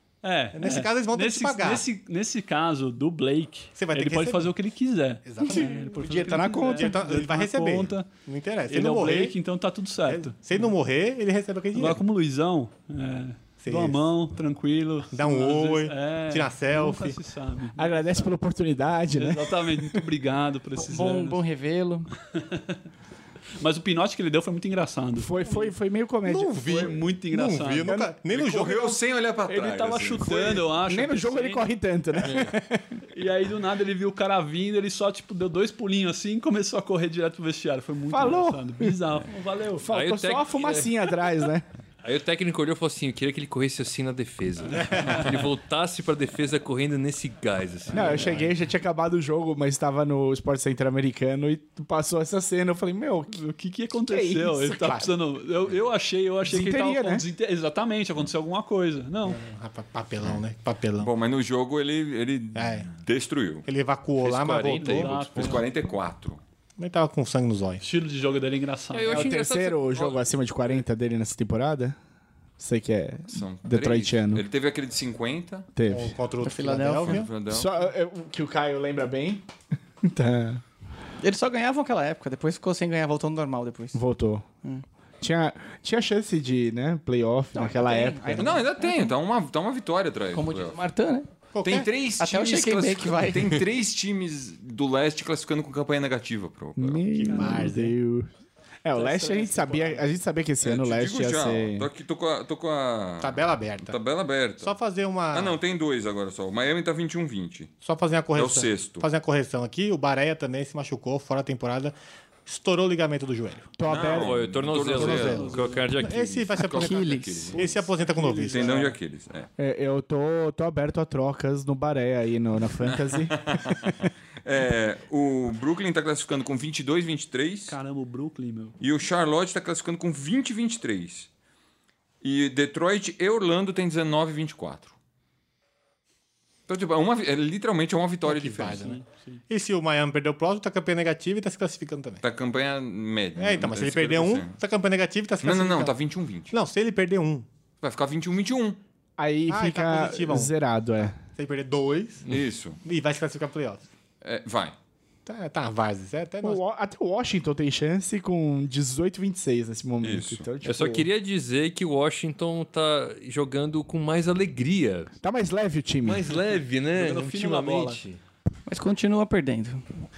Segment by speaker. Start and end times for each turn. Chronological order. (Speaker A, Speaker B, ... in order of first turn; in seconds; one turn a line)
Speaker A: 0.2-8.1
Speaker B: 0.5-1.8
Speaker B: 3.8-4.5
Speaker B: 5.2-5.9
Speaker C: 5.5-7.0
Speaker B: 6.7-9.3
Speaker A: 8.7-10.7
Speaker B: 10.1-12.0
Speaker A: 11.7-18.3
Speaker B: 13.6-14.1
Speaker B: 15.1-17.2
Speaker C: 17.8-20.0
Speaker A: 19.1-21.4
Speaker D: 20.8-22.1
Speaker A: 22.3-22.8
Speaker A: 23.6-25.7
Speaker C: 25.1-26.9
Speaker B: 26.3-29.0
Speaker A: 26.5-27.9
Speaker C: 27.8-28.1
Speaker E: 28.3-30.6
Speaker A: 29.5-31.7
Speaker C: 30.9-33.0
Speaker F: 32.2-32.5
Speaker A: 33.0-39.9
Speaker C: 38.1-39.0
Speaker C: 39.8-41.6
Speaker F: 39.9-41.1
Speaker F: 42.0-48.4
Speaker A: 44.8-45.4
Speaker C: 47.9-53.4
Speaker B: 48.1-48.5
Speaker A: 53.3-59.4
Speaker C: 54.0-55.1
Speaker B: 54.8-55.1
Speaker C: 56.5-57.2
Speaker B: 59.2-61.1
Speaker E: 61.0-63.7
Speaker B: 62.5-62.9
Speaker B: 63.6-65.5
Speaker F: 64.2-65.5
Speaker A: 64.7-65.6
Speaker E: 65.3-66.4
Speaker B: 66.8-67.8
Speaker A: 67.8-69.3
Speaker F: 68.9-70.1
Speaker C: 69.1-72.0
Speaker E: 69.8-70.2
Speaker C: 72.6-74.4
Speaker E: 73.3-75.7
Speaker C: 75.8-76.2
Speaker B: 75.9-77.3
Speaker D: 76.4-77.2
Speaker E: 77.0-77.7
Speaker C: 77.5-79.4
Speaker C: 80.0-80.6
Speaker D: 81.2-84.0
Speaker C: 83.9-84.5
Speaker C: 85.2-88.5
Speaker D: 87.5-89.1
Speaker E: 88.3-90.8
Speaker D: 90.3-91.3
Speaker B: 91.5-91.9
Speaker E: 91.6-97.0
Speaker D: 92.2-93.6
Speaker C: 96.8-98.3
Speaker B: 97.1-97.9
Speaker A: 97.2-97.9
Speaker C: 98.8-101.9
Speaker A: 98.9-100.0
Speaker E: 100.6-104.7
Speaker B: 103.2-104.0
Speaker B: 104.6-105.6
Speaker E: 105.3-107.7
Speaker B: 107.8-111.9
Speaker E: 108.3-109.0
Speaker B: 112.5-113.8
Speaker C: 113.8-114.5
Speaker E: 113.8-115.6
Speaker F: 114.1-116.6
Speaker A: 114.8-115.9
Speaker B: 114.9-119.0
Speaker E: 116.6-117.8
Speaker D: 116.6-117.6
Speaker A: 118.0-118.9
Speaker E: 118.4-119.5
Speaker C: 119.6-124.1
Speaker E: 122.8-127.8
Speaker A: 127.7-128.8
Speaker E: 128.8-131.3
Speaker E: 132.2-134.9
Speaker E: 136.7-138.9
Speaker B: 138.2-142.2
Speaker A: 138.8-139.4
Speaker E: 142.2-144.5
Speaker B: 143.4-145.9
Speaker E: 145.4-146.5
Speaker B: 146.5-147.4
Speaker E: 147.8-148.8
Speaker C: 149.2-151.2
Speaker B: 149.5-150.5
Speaker B: 151.3-152.2
Speaker E: 152.3-152.8
Speaker B: 152.8-153.9
Speaker E: 154.2-154.7
Speaker B: 155.2-156.6
Speaker C: 156.4-161.1
Speaker E: 160.0-160.5
Speaker F: 160.6-165.1
Speaker C: 165.2-166.4
Speaker F: 166.0-168.2
Speaker A: 166.9-168.0
Speaker D: 168.7-169.8